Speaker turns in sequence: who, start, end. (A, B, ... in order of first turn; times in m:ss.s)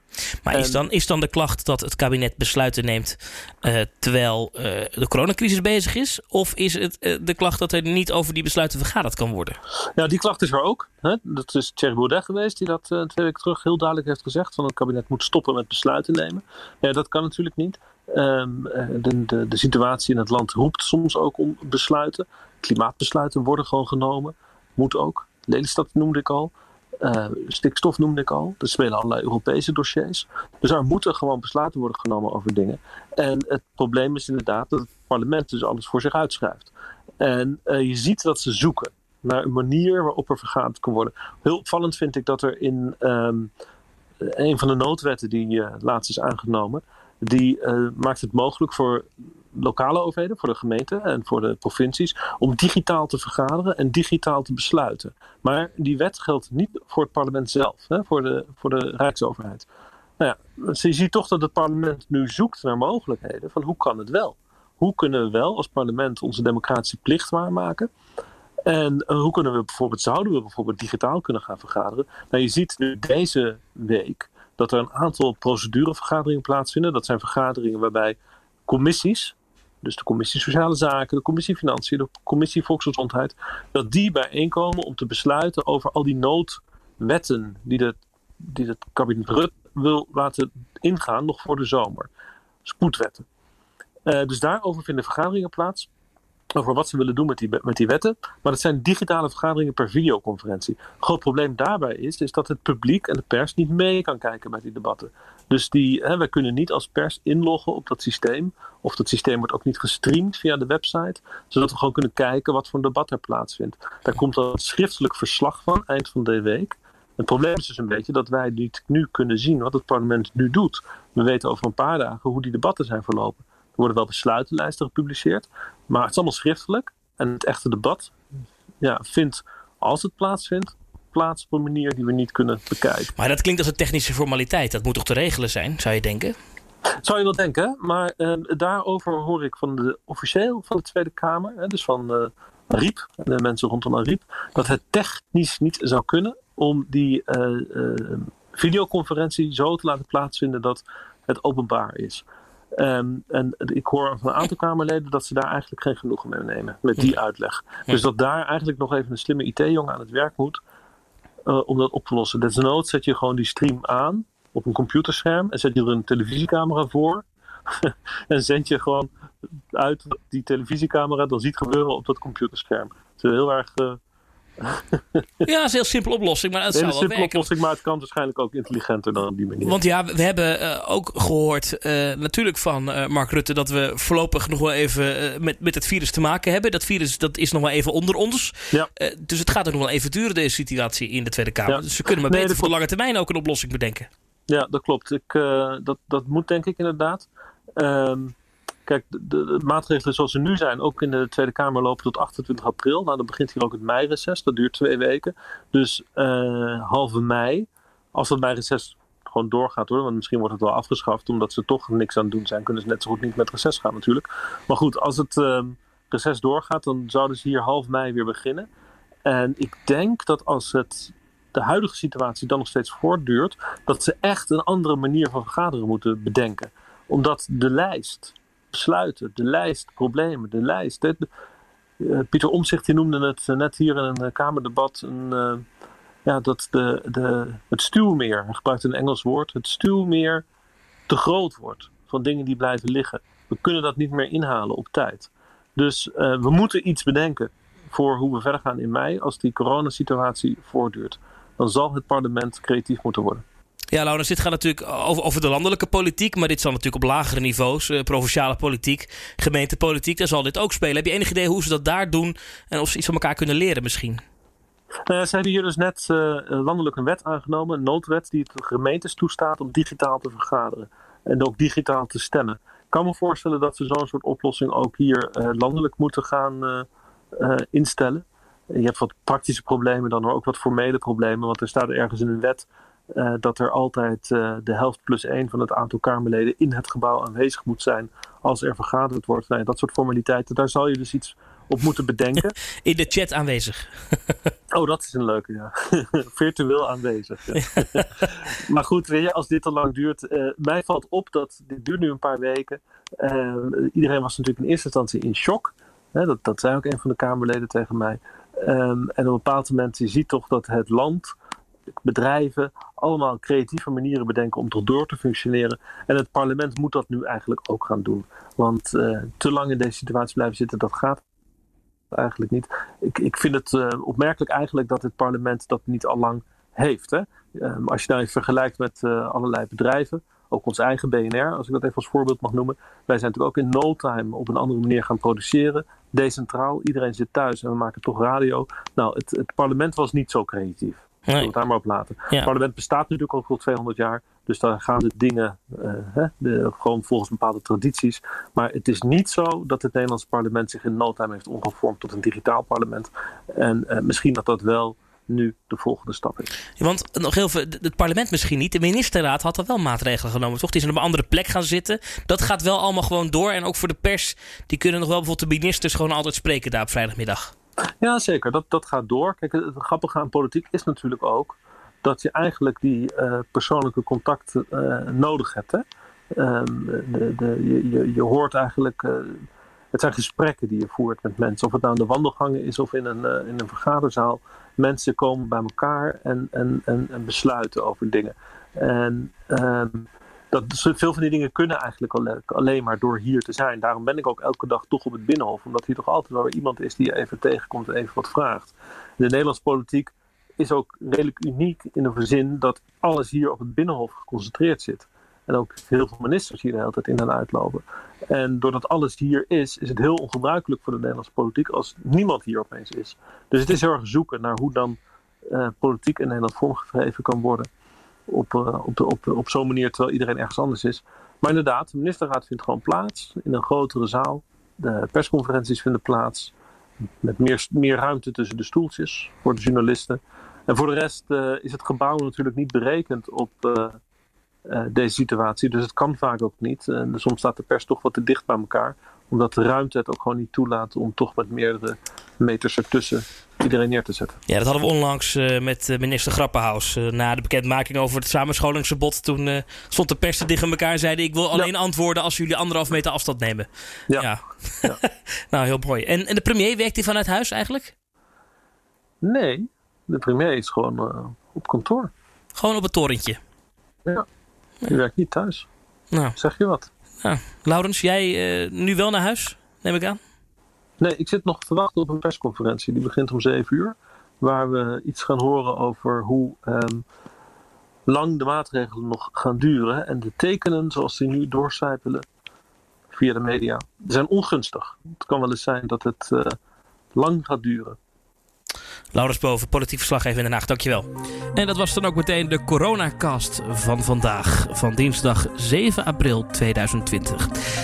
0:00.4-0:09.6 A
0:00.5-0:00.8 B
0:10.0-0:43.5 B
0:44.2-0:59.7 B
1:00.2-1:07.9 B
1:08.7-1:32.1 B
1:32.6-1:33.3 B
1:34.1-1:35.9 B
1:36.6-2:08.1 B
2:08.8-2:13.1 B
2:13.2-2:16.4 A
2:17.0-2:32.2 B
2:32.8-2:40.6 B
2:41.5-2:49.1 B
2:49.7-2:54.0 B
2:54.6-2:55.5 B
2:55.4-2:57.5 A
2:56.7-2:59.8 B
2:59.6-3:14.1 A
3:11.7-3:12.7 B
3:14.5-3:38.7 B
3:39.2-3:51.3 B
3:52.0-3:55.6 B
3:56.2-4:00.4 B
4:01.1-4:13.4 B
4:13.9-4:24.2 A
4:25.1-4:52.6 B
4:52.8-4:54.4 A
4:54.7-5:11.3 B
4:57.6-4:58.1 A
5:12.0-5:21.2 B
5:22.1-5:56.5 B
5:41.3-5:41.5 A
5:56.8-6:07.5 A
6:08.0-6:57.7 B
6:58.3-7:06.5 B
7:07.2-7:14.0 B
7:14.7-7:24.4 B
7:24.5-7:37.9 A
7:39.2-7:42.1 B
7:42.6-7:43.4 A
7:44.9-7:45.7 B
7:46.1-7:46.4 A
7:46.4-7:46.9 B
7:47.2-7:50.2 A
7:51.0-7:57.0 B
7:58.1-8:02.3 B
8:03.1-8:06.6 B
8:07.1-8:08.0 B
8:09.1-8:17.5 A